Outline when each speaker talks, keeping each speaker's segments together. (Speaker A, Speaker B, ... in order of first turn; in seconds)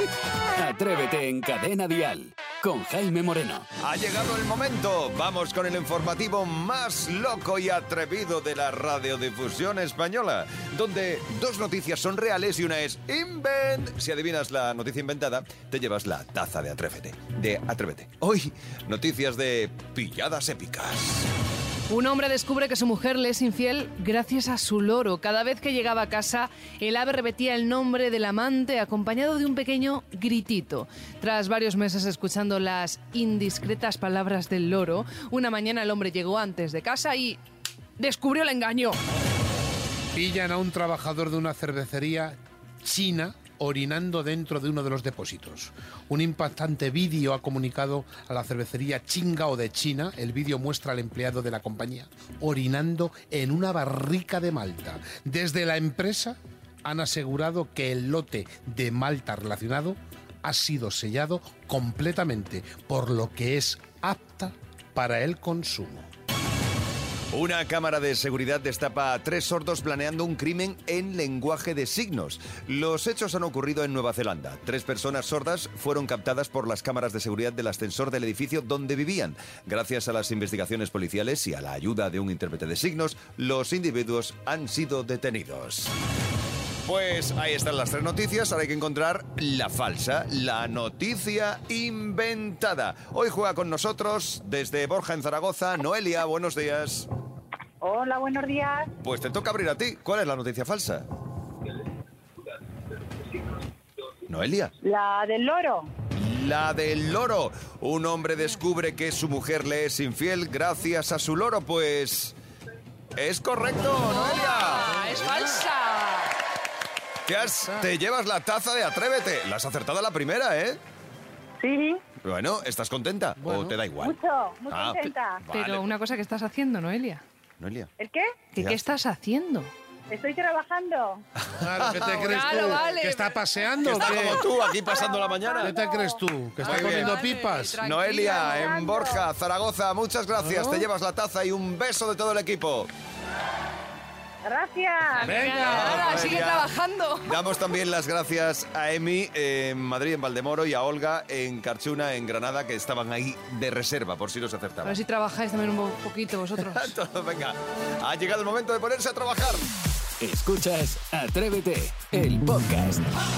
Speaker A: 0.6-3.7, 160.2-163.2
Speaker B: 3.8-21.3, 67.3-85.9, 86.8-97.1, 99.0-101.0, 104.3-104.7, 106.2-112.3, 113.2-114.9, 117.2-120.8, 122.2-124.2, 124.7-125.8, 127.6-127.9, 131.7-132.6, 133.8-135.8, 136.6-137.2, 137.8-142.9, 145.2-146.7, 147.2-155.0, 156.6-159.7
Speaker C: 21.9-37.4, 38.0-39.0, 114.1-116.3, 125.5-127.2, 128.5-129.7, 132.0-134.4, 136.6-138.7, 145.2-147.3, 154.8-156.9
Speaker D: 40.1-66.1, 117.5-117.8, 123.4-123.8, 131.6-134.5, 135.6-137.8, 140.4-140.8, 145.2-146.0
Speaker E: 97.8-98.9, 104.8-105.9, 121.6-122.0, 124.0-125.4, 128.0-128.2, 130.1-131.2, 135.2-136.2, 138.4-139.1, 144.4-145.2